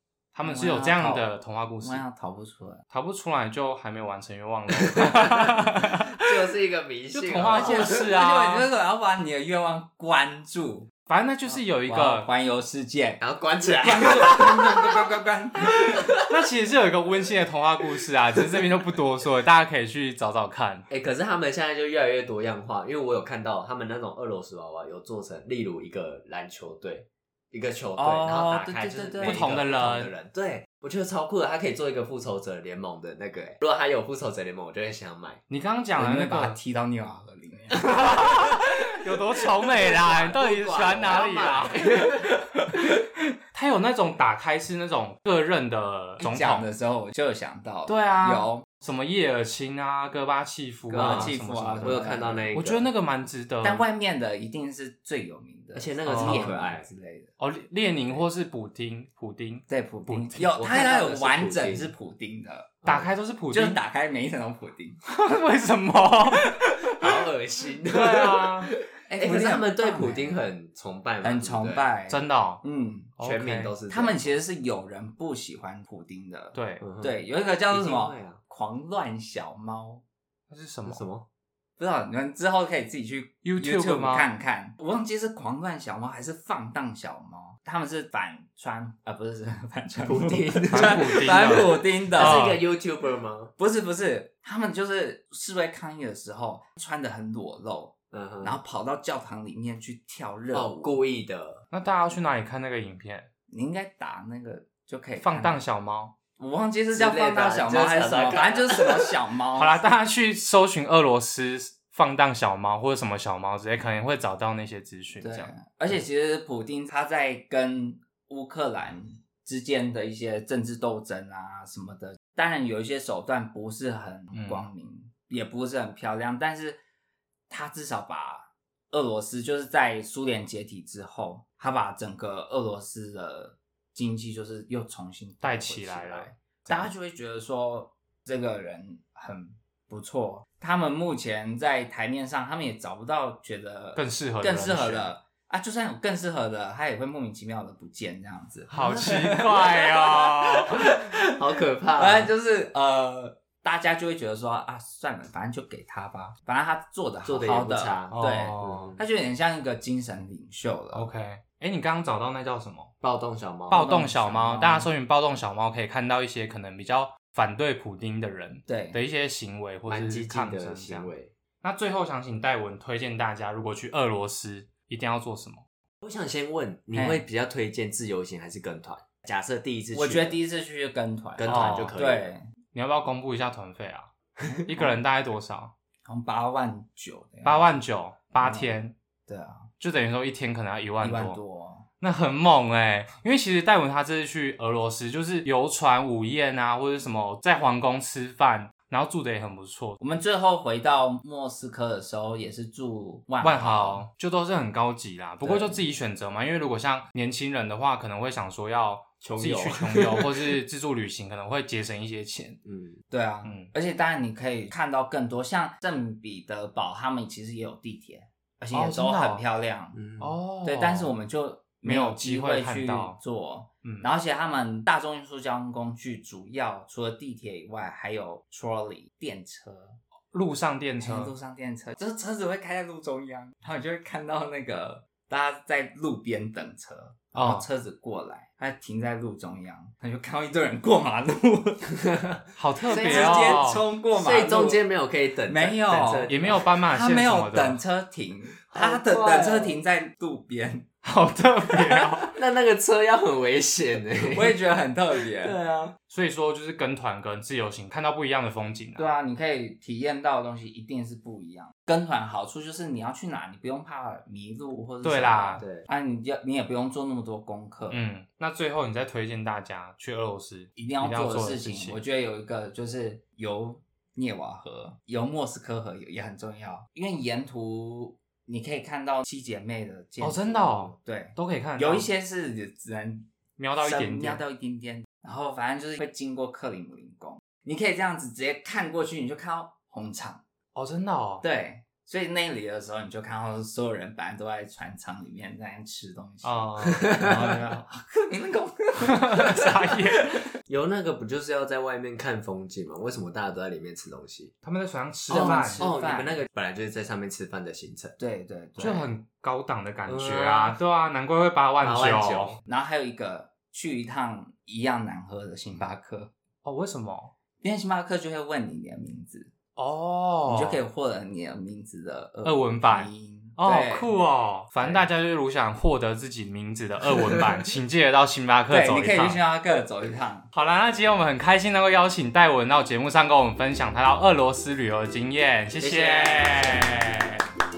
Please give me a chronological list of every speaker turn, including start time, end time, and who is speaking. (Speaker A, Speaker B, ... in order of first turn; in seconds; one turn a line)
Speaker A: 0.3-2.0
Speaker B: 0.4-1.3
Speaker B: 1.8-2.8
Speaker A: 2.9-6.2
Speaker C: 4.8-8.0
Speaker A: 7.1-8.7
Speaker B: 7.4-10.9
Speaker A: 11.1-12.3
Speaker B: 11.4-16.1
Speaker C: 13.2-15.1
Speaker C: 15.8-16.2
Speaker A: 16.2-20.9
Speaker C: 18.4-18.6
Speaker C: 20.9-35.4
Speaker B: 28.0-29.6
Speaker A: 29.2-30.1
Speaker A: 35.5-36.6
Speaker B: 36.0-38.4
Speaker A: 37.8-42.1
Speaker C: 37.9-38.7
Speaker C: 39.6-42.3
Speaker A: 43.5-46.7
Speaker B: 46.2-48.6
Speaker A: 47.9-53.9
Speaker B: 50.9-52.6
Speaker C: 50.9-52.9
Speaker B: 53.6-57.3
Speaker C: 55.7-56.9
Speaker A: 56.0-56.5
Speaker A: 57.4-60.5
Speaker B: 59.7-62.8
Speaker C: 60.5-61.9
Speaker A: 62.8-63.8
Speaker C: 62.9-63.1
Speaker B: 63.5-65.0
Speaker A: 65.1-67.3
Speaker C: 66.8-71.9
Speaker A: 67.8-68.7
Speaker B: 69.1-70.5
Speaker B: 71.2-73.1
Speaker A: 72.1-72.6
Speaker A: 73.2-73.7
Speaker C: 73.2-74.4
Speaker B: 73.9-80.0
Speaker A: 76.5-76.8
Speaker C: 76.8-78.4
Speaker A: 80.5-81.0
Speaker C: 80.8-81.2
Speaker B: 81.8-92.4
Speaker A: 83.4-84.3
Speaker C: 90.0-93.5
Speaker A: 90.7-92.6
Speaker B: 93.6-101.0
Speaker C: 98.1-98.6
Speaker C: 100.5-101.6
Speaker A: 101.7-103.3
Speaker B: 103.5-105.6
Speaker A: 105.2-106.1
Speaker B: 106.4-109.8
Speaker C: 106.9-109.2
Speaker A: 109.5-115.5
Speaker B: 115.2-126.8
Speaker A: 124.3-124.7
Speaker B: 127.5-150.3
Speaker A: 135.4-136.9
Speaker A: 143.9-145.1
Speaker A: 148.7-151.1
Speaker C: 149.9-152.3
Speaker B: 151.9-161.1
Speaker C: 157.2-159.0
Speaker A: 158.1-158.9
Speaker A: 160.9-162.9
Speaker C: 163.0-163.8
Speaker A: 163.7-175.6
Speaker B: 163.7-164.9
Speaker B: 168.7-169.0
Speaker C: 169.9-171.3
Speaker C: 176.0-180.4
Speaker B: 176.9-177.2
Speaker B: 179.9-182.4
Speaker C: 181.4-182.3
Speaker A: 181.4-182.0
Speaker A: 182.7-184.1
Speaker B: 184.4-185.0
Speaker A: 184.7-185.7
Speaker B: 186.1-187.7
Speaker A: 187.4-188.9
Speaker B: 188.4-189.7
Speaker A: 189.8-191.4
Speaker B: 191.0-191.8
Speaker A: 192.0-200.0
Speaker B: 200.0-204.1
Speaker A: 203.4-212.6
Speaker B: 205.4-205.8
Speaker C: 209.2-210.6
Speaker C: 212.6-213.0
Speaker B: 213.1-220.0
Speaker A: 213.4-213.7
Speaker A: 218.7-219.4
Speaker C: 219.9-220.4
Speaker A: 220.2-221.1
Speaker B: 220.6-230.0
Speaker A: 221.8-223.2
Speaker A: 230.3-231.3
Speaker B: 231.0-242.2
Speaker A: 237.3-237.7
Speaker A: 242.6-243.8
Speaker B: 242.8-244.8
Speaker C: 242.8-246.7
Speaker B: 245.5-250.9
Speaker A: 246.3-247.8
Speaker C: 248.7-249.8
Speaker A: 251.0-252.3
Speaker B: 251.8-252.1
Speaker C: 252.3-254.5
Speaker B: 254.2-255.6
Speaker C: 255.2-255.9
Speaker A: 256.1-259.1
Speaker B: 258.9-268.0
Speaker A: 265.0-265.6
Speaker C: 265.6-265.9
Speaker A: 267.9-272.0
Speaker B: 270.8-283.3
Speaker A: 280.2-282.1
Speaker A: 283.6-284.4
Speaker B: 283.8-290.4
Speaker A: 290.7-291.4
Speaker B: 291.4-300.4
Speaker A: 296.4-297.8
Speaker A: 299.1-300.5
Speaker C: 300.7-304.5
Speaker A: 304.6-305.9
Speaker B: 305.3-306.4
Speaker C: 305.3-308.1
Speaker B: 308.2-309.1
Speaker A: 308.8-312.6
Speaker C: 310.1-310.8
Speaker C: 311.8-312.6
Speaker B: 312.6-316.3
Speaker A: 316.6-317.3
Speaker B: 317.6-319.5
Speaker A: 319.8-320.8
Speaker B: 320.4-324.1
Speaker A: 322.4-329.4
Speaker B: 324.8-325.0
Speaker C: 327.0-327.6
Speaker B: 328.7-330.5
Speaker A: 330.5-337.4
Speaker C: 335.8-337.2